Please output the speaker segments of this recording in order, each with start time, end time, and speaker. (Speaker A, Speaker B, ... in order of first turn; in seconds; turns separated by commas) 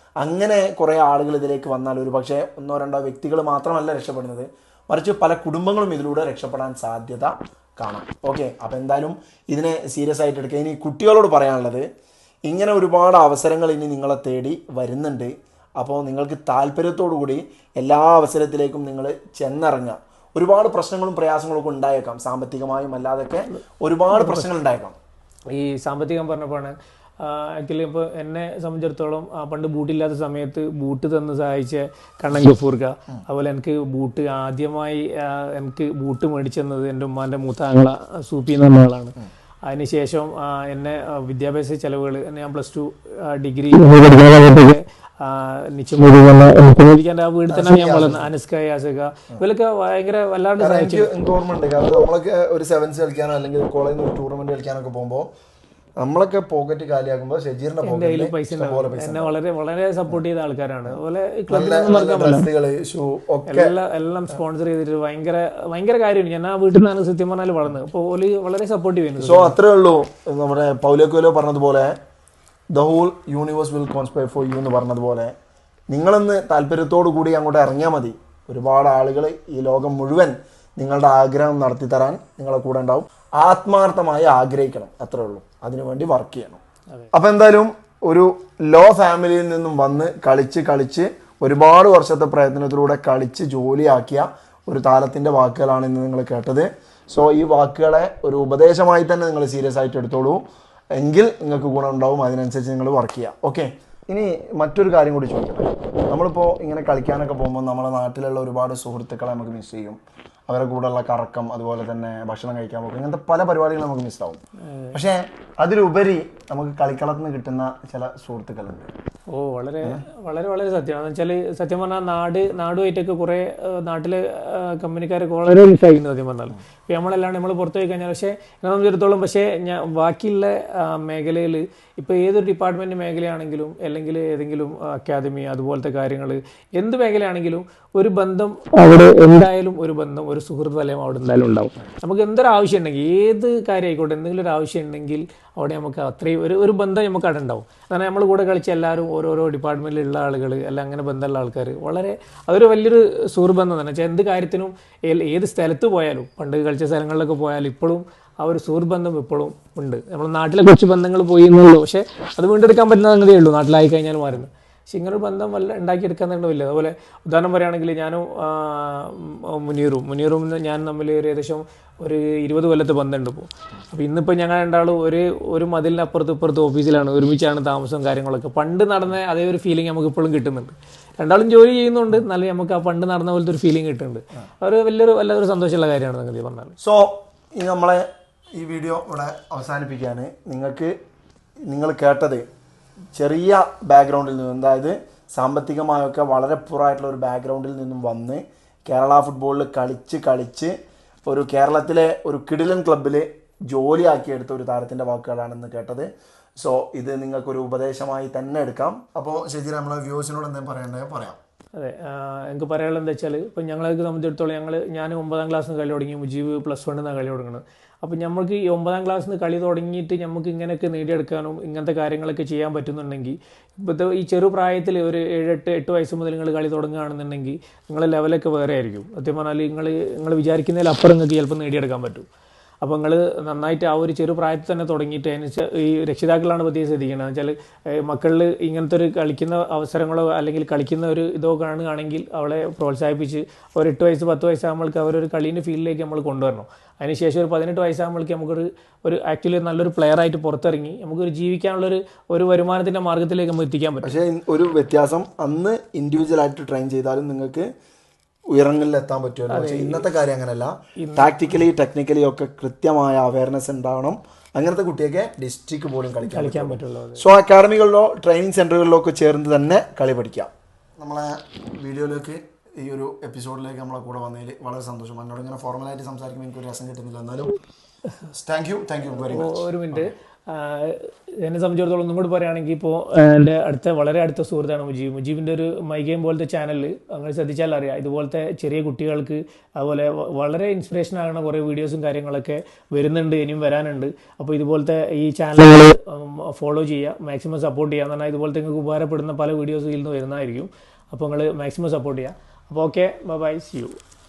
Speaker A: 0.2-11.9, Speaker A: 12.5-25.0, Speaker B: 24.1-24.5, Speaker B: 25.5-39.1, Speaker B: 39.7-51.1, Speaker A: 47.5-48.3, Speaker A: 50.6-55.3, Speaker A: 56.0-59.3, Speaker B: 57.8-62.5, Speaker A: 61.5-63.7, Speaker B: 63.5-69.6, Speaker A: 69.2-72.0, Speaker A: 72.7-75.3, Speaker A: 75.9-86.6, Speaker A: 87.1-100.4, Speaker A: 101.0-114.4, Speaker A: 114.9-118.9, Speaker B: 119.3-186.8, Speaker A: 186.8-190.9, Speaker A: 191.7-192.4, Speaker A: 193.2-211.4, Speaker B: 211.8-232.3, Speaker B: 232.8-254.2, Speaker A: 254.0-257.7, Speaker A: 258.5-277.6, Speaker B: 259.5-260.1, Speaker B: 261.0-261.5, Speaker B: 266.2-267.2, Speaker A: 278.3-280.1, Speaker B: 279.1-304.0